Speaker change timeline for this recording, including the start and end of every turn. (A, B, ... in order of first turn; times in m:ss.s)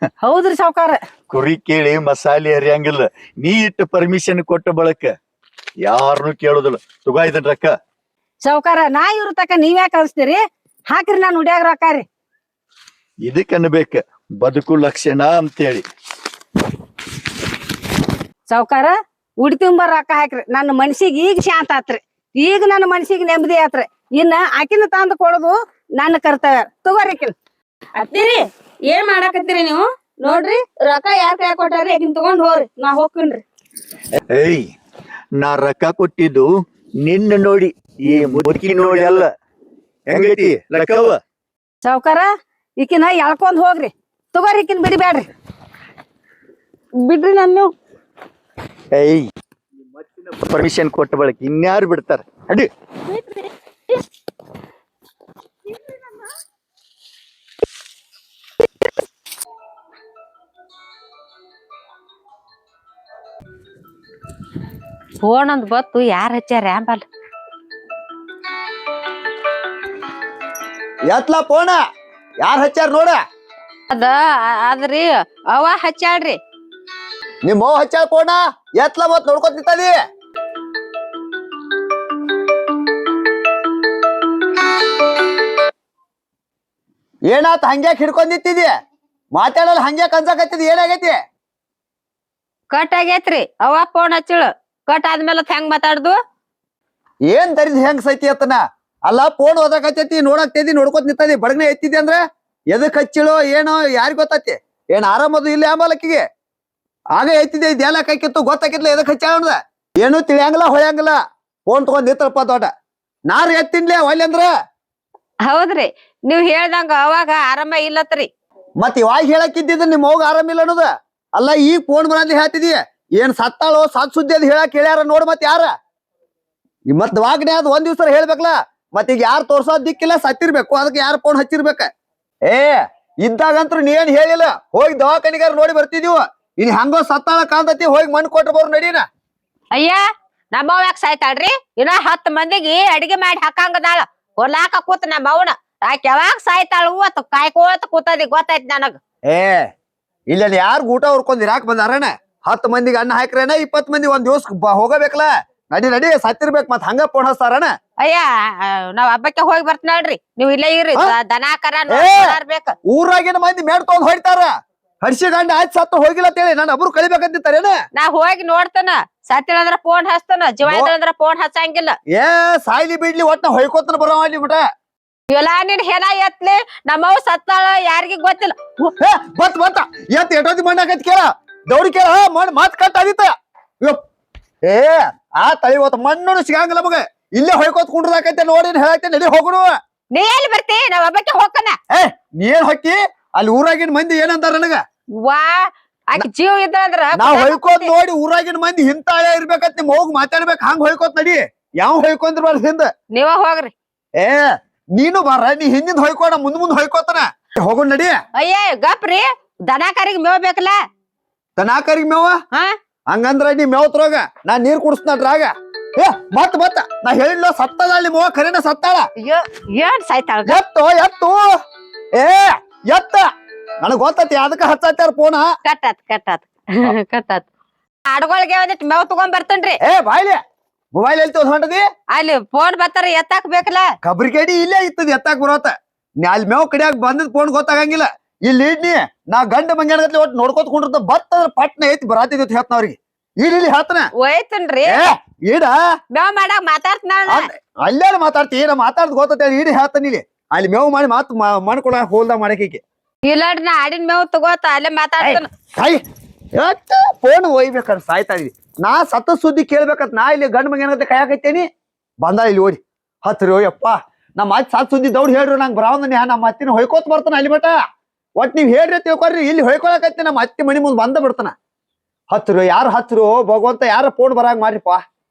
0:00.2-0:01.0 A
0:01.3-0:05.1 B
0:05.8-0:07.7 B
0:08.4-0:12.0 A
0:13.2-0:15.8 B
0:18.5-0:27.3 A
0:28.0-0:33.4 C
0:34.3-0:34.6 B
0:35.4-0:36.5 B
0:37.0-0:39.3 B
0:40.1-0:41.2 B
0:41.8-0:45.3 A
0:47.0-0:47.7 C
0:48.9-0:49.3 B
0:50.2-0:52.7 B
1:05.2-1:07.0 D
1:11.1-1:11.8 E
1:12.4-1:13.2 E
1:13.9-1:16.4 D
1:17.4-1:20.0 E
1:27.3-1:28.7 E
1:29.3-1:31.2 E
1:32.7-1:36.2 D
1:37.3-1:46.2 E
1:47.1-1:52.7 E
1:53.3-1:54.5 E
1:55.4-1:58.3 D
1:58.8-2:05.7 E
2:06.9-2:11.9 E
2:12.4-2:19.0 E
2:19.7-2:20.0 D
2:20.5-2:29.0 D
2:29.3-2:29.7 E
2:30.3-2:37.7 E
2:38.0-2:42.7 D
2:41.9-2:44.5 E
2:45.0-2:47.8 E
2:47.9-2:52.0 D
2:50.6-2:50.9 E
2:52.1-2:54.6 E
2:55.3-2:58.9 D
2:59.0-3:04.0 E
3:04.6-3:09.8 E
3:10.1-3:11.8 D
3:11.9-3:14.8 E
3:15.2-3:17.9 D
3:17.1-3:22.9 E
3:23.1-3:23.7 D
3:24.2-3:28.2 E
3:28.3-3:30.8 D
3:31.6-3:32.4 E
3:33.1-3:39.1 E
3:39.2-3:40.6 D
3:40.4-3:41.5 E
3:42.1-3:43.3 E
3:43.8-3:45.4 E
3:45.6-3:47.4 D
3:48.1-3:49.8 D
3:49.8-3:50.4 E
3:50.9-3:51.8 E
3:52.1-3:53.9 D
3:54.0-4:04.1 E
4:04.2-4:05.0 D
4:04.8-4:05.8 E
4:06.1-4:07.5 D
4:07.3-4:12.8 E
4:13.2-4:15.5 D
4:15.2-4:16.0 E
4:16.6-4:21.7 E
4:22.2-4:27.8 E
4:28.4-4:31.5 E
4:32.3-4:35.0 E